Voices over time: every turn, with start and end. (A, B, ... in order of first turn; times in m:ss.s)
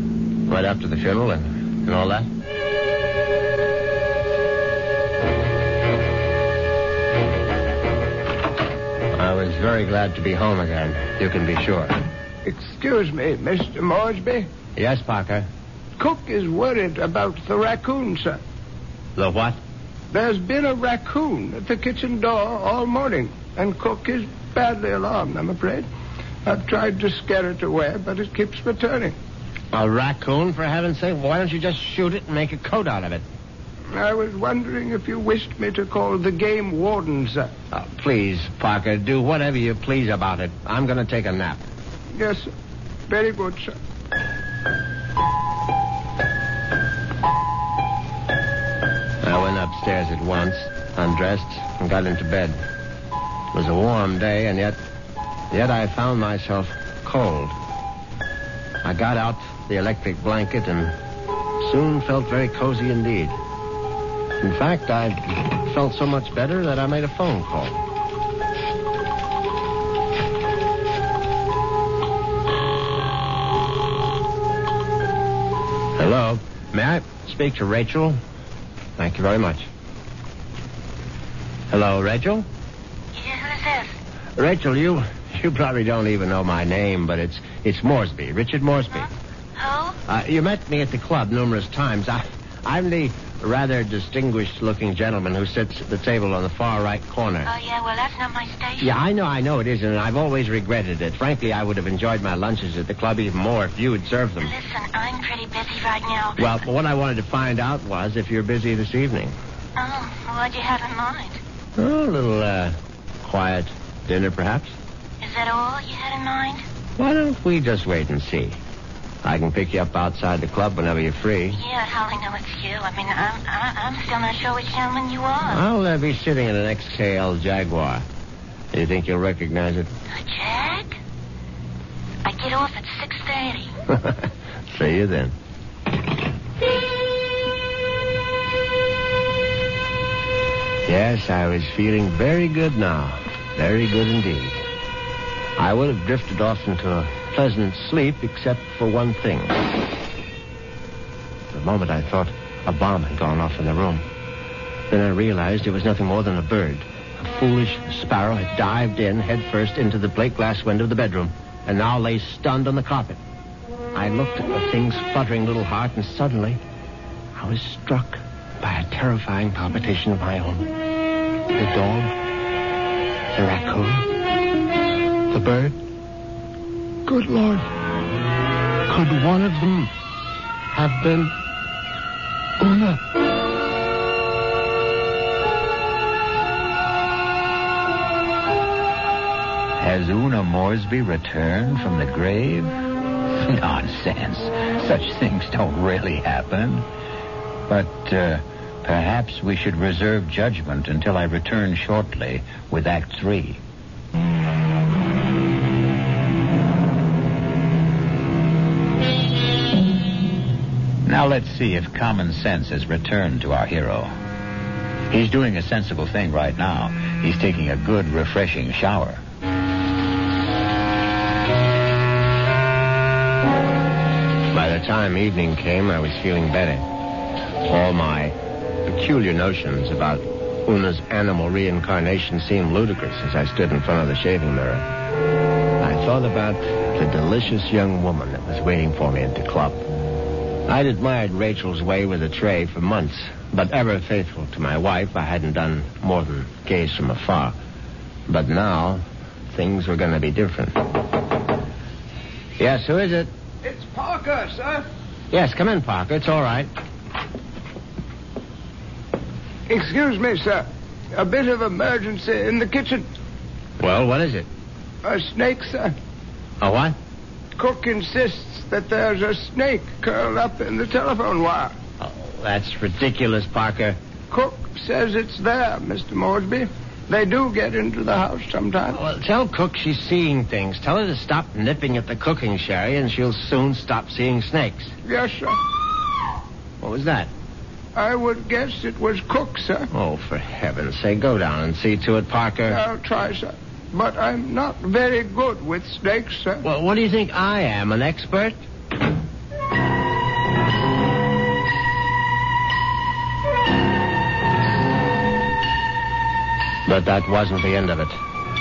0:00.5-0:02.3 A
0:09.1-0:12.0 A
0:12.4-0:14.5 B
0:14.8-0:15.5 A
0:16.0-0:18.4 B
0:19.2-0:19.6 A
0:20.1-0:25.8 B
0:26.4-0:29.1 B
0:29.7-0:33.2 A
0:33.9-0:37.5 B
0:37.7-0:41.6 A
0:42.2-0:42.5 B
0:43.1-0:43.8 B
0:49.2-0:52.6 A
0:53.5-0:54.8 A
0:55.5-0:57.6 A
0:58.8-1:00.9 A
1:01.6-1:03.4 A
1:04.4-1:07.8 A
1:16.0-1:18.2 A
1:19.0-1:19.7 A
1:21.7-1:22.5 A
1:23.1-1:24.0 C
1:24.4-1:29.1 A
1:29.6-1:30.0 C
1:30.0-1:37.5 A
1:37.4-1:39.0 C
1:38.8-1:44.5 A
1:44.4-1:46.6 C
1:46.4-1:49.3 A
1:49.8-1:51.4 C
1:51.8-1:54.7 A
1:55.2-1:56.6 C
1:57.0-1:58.6 A
1:59.2-2:01.6 A
2:01.5-2:05.6 C
2:05.4-2:08.0 A
2:08.7-2:09.9 A
2:10.1-2:11.0 C
2:12.2-2:13.7 C
2:13.9-2:15.3 A
2:20.8-2:24.6 A
2:25.6-2:29.7 A
2:31.5-2:34.0 A
2:34.9-2:43.2 A
2:43.9-2:46.6 A
2:47.3-2:50.7 A
2:51.5-2:52.1 A
2:53.3-2:54.1 A
2:55.3-2:55.8 A
2:57.0-2:57.7 A
2:58.9-2:59.9 A
3:00.7-3:01.3 A
3:02.6-3:03.0 A
3:09.8-3:12.7 D
3:13.4-3:16.8 D
3:17.7-3:23.6 D
3:31.0-3:34.1 D
3:35.1-3:39.2 D
3:44.5-3:46.8 A
3:47.6-3:54.9 A
3:55.8-3:59.8 A
4:00.7-4:07.6 A
4:08.3-4:10.9 A
4:12.6-4:13.3 A
4:13.6-4:14.8 B
4:15.3-4:16.7 A
4:19.7-4:23.0 B
4:23.8-4:24.5 A
4:25.0-4:25.9 B
4:26.6-4:27.0 A
4:27.6-4:31.8 B
4:32.0-4:34.0 A
4:34.3-4:39.0 B
4:38.9-4:44.9 A
4:45.0-4:45.6 B
4:46.8-4:47.3 A
4:47.9-4:49.9 B
4:49.9-4:52.8 A
4:52.7-4:56.6 B
4:56.6-4:58.6 A
5:06.8-5:08.2 A